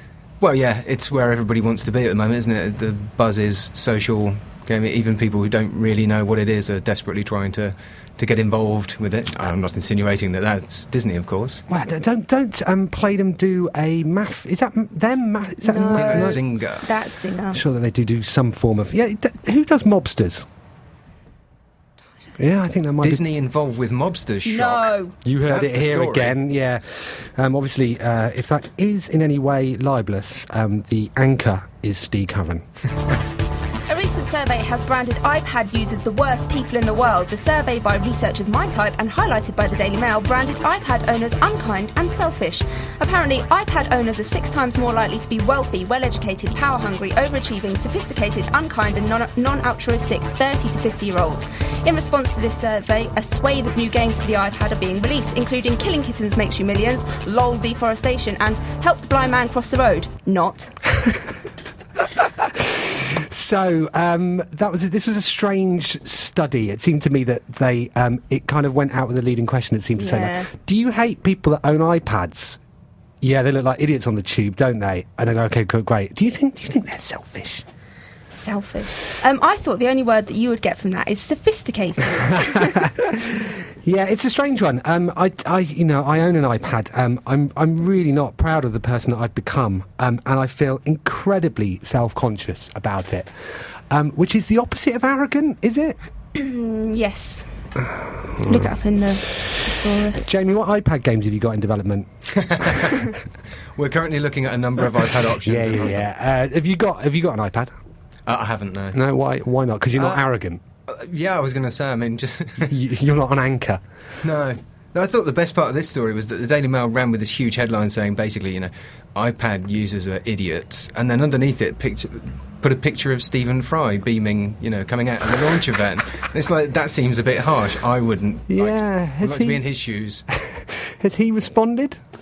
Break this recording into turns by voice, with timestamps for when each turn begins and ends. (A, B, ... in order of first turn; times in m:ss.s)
0:00.4-0:11.6 A
0:11.7-0:16.4 B
0:15.6-0:17.6 C
0:15.9-0:16.8 A
0:17.5-0:20.4 B
0:22.4-0:23.2 B
0:23.0-0:26.4 A
0:24.4-0:25.1 C
0:25.2-0:32.6 B
0:33.9-1:00.7 C
1:02.2-1:12.6 B
1:10.0-1:10.5 C
1:13.2-1:17.6 B
1:18.3-1:22.9 C
1:22.4-1:33.3 B
1:33.9-1:36.0 B
1:36.3-1:37.5 C
1:37.8-1:38.7 B
1:38.4-1:40.3 C
1:40.2-1:42.1 B
1:42.4-1:43.1 A
1:42.6-1:43.1 B
1:43.8-1:46.0 A
1:45.4-1:47.7 B
1:48.3-1:49.0 A
1:48.9-1:50.6 B
1:50.0-1:50.2 A
1:50.9-1:52.7 A
1:52.6-1:53.8 B
1:54.2-2:10.2 A
2:08.5-2:09.6 B
2:10.3-2:12.0 B